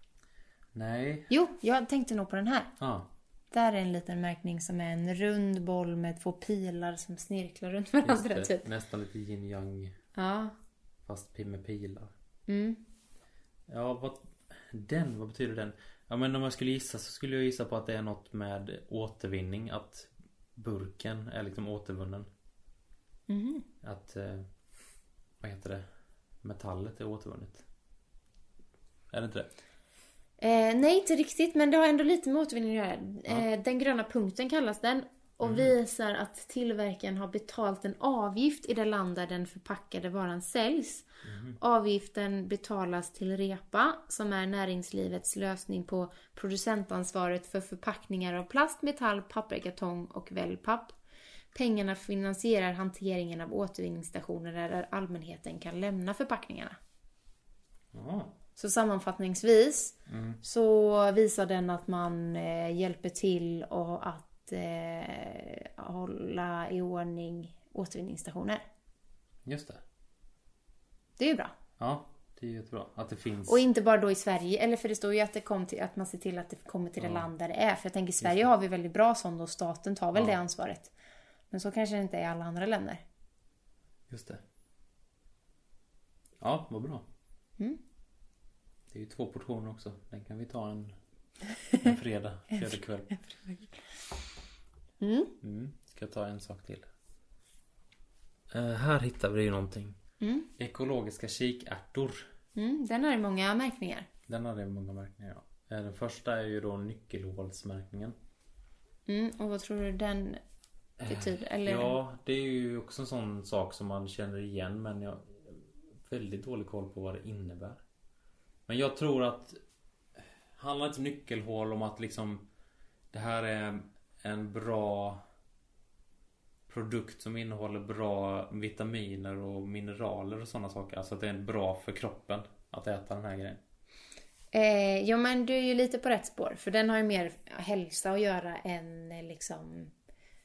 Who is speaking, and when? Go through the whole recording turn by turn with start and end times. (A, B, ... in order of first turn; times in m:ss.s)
0:00.7-0:01.3 A
0:01.3-0:02.7 B
0:02.8-0:03.1 A
0:03.5-0:08.7 B
0:08.0-0:10.0 A
0:10.1-0:10.5 B
0:11.0-0:12.1 A
0:12.5-0:12.8 B
0:13.7-0:22.3 A
0:23.3-0:23.6 B
0:23.8-0:24.4 A
0:25.4-0:25.8 A
0:26.4-0:27.6 A
0:29.1-0:29.5 A
0:30.4-0:41.1 B
0:35.4-0:35.7 A
0:41.2-0:41.6 A
0:41.6-0:51.0 B
0:51.5-0:56.8 B
0:57.9-0:58.4 A
0:58.6-1:08.6 B
1:00.1-1:00.4 A
1:09.4-1:09.8 A
1:11.2-1:11.6 B
1:11.8-1:13.6 A
1:13.5-1:20.9 B
1:17.0-1:17.3 A
1:18.2-1:18.5 A
1:21.5-1:23.0 B
1:24.1-1:24.4 A
1:26.4-1:27.0 A
1:28.9-1:30.9 A
1:31.7-1:33.2 A
1:32.5-1:33.7 B
1:35.0-1:35.4 B
1:35.4-1:36.9 A
1:38.5-1:40.0 A
1:40.2-1:40.5 B
1:40.6-1:42.3 A
1:42.6-1:44.1 B
1:44.3-1:48.2 A
1:49.1-1:50.4 B
1:51.0-1:57.8 A
1:51.0-1:52.0 B
1:58.7-1:59.6 A
2:00.5-2:02.4 A
2:03.1-2:05.2 A
2:06.7-2:13.6 A
2:14.5-2:19.9 B